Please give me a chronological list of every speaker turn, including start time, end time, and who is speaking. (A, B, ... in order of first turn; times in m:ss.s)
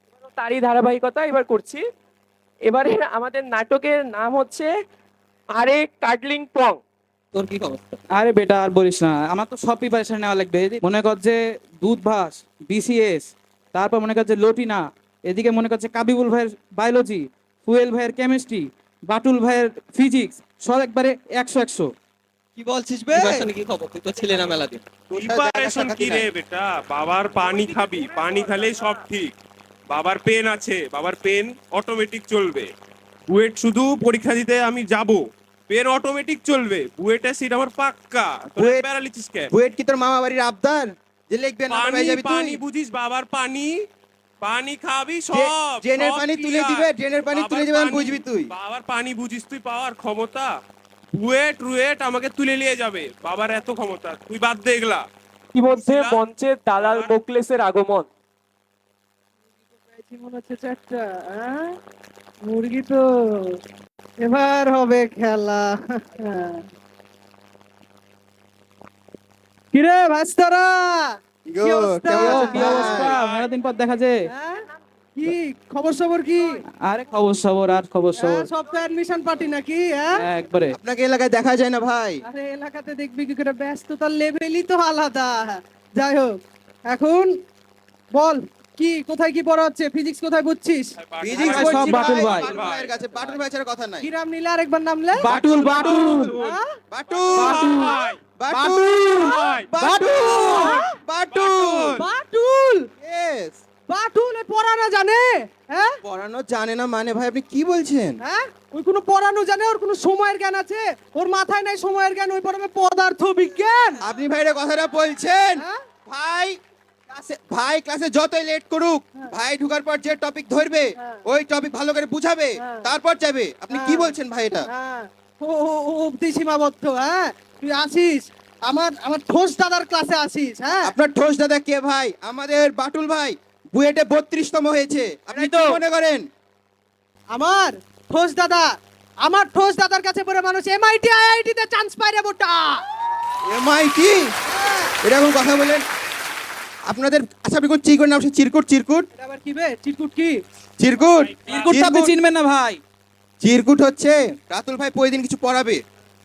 0:00.3-0:01.8 A
0:02.7-0:04.7 A
0:05.5-0:06.8 A
0:07.4-0:07.8 B
0:08.1-0:21.9 C
0:23.0-0:23.4 D
0:23.1-0:24.7 B
0:25.1-0:29.3 E
0:25.1-0:26.3 D
0:29.9-0:32.7 E
0:33.3-0:39.5 E
0:38.6-0:38.8 D
0:39.5-0:42.6 D
0:41.7-0:43.8 E
0:44.4-0:50.5 E
0:45.3-0:48.5 D
0:51.2-0:55.0 E
0:55.5-0:58.1 A
0:55.8-0:56.2 E
0:56.8-0:57.2 E
0:59.9-1:01.8 F
1:02.4-1:03.6 F
1:04.2-1:06.6 F
1:09.7-1:13.1 F
1:11.5-1:13.2 D
1:12.2-1:14.1 C
1:13.1-1:13.5 E
1:14.2-1:14.6 F
1:15.2-1:16.5 F
1:16.9-1:18.5 C
1:18.2-1:20.2 F
1:20.2-1:20.8 C
1:20.7-1:22.2 D
1:22.2-1:26.3 F
1:26.9-1:27.3 F
1:28.1-1:30.9 F
1:31.1-1:33.0 E
1:31.2-1:34.0 D
1:31.4-1:32.5 C
1:34.0-1:35.3 F
1:35.2-1:36.3 C
1:35.3-1:36.0 D
1:35.4-1:36.6 E
1:36.3-1:36.8 F
1:36.9-1:42.0 D
1:37.1-1:38.2 E
1:38.5-1:39.1 C
1:39.1-1:39.7 E
1:39.9-1:40.9 F
1:40.8-1:42.0 E
1:42.0-1:42.9 F
1:43.0-1:43.6 D
1:43.9-1:46.0 F
1:46.0-1:48.2 D
1:48.2-1:54.0 F
1:54.0-1:56.6 D
1:57.1-2:04.7 D
2:02.6-2:02.9 F
2:03.7-2:04.1 F
2:04.7-2:10.9 F
2:10.8-2:16.2 D
2:17.3-2:18.7 F
2:19.2-2:22.8 F
2:23.5-2:24.3 D
2:24.5-2:24.9 F
2:25.0-2:25.8 D
2:26.9-2:29.1 D
2:29.1-2:30.3 F
2:30.8-2:32.1 D
2:31.4-2:32.8 C
2:33.4-2:35.8 D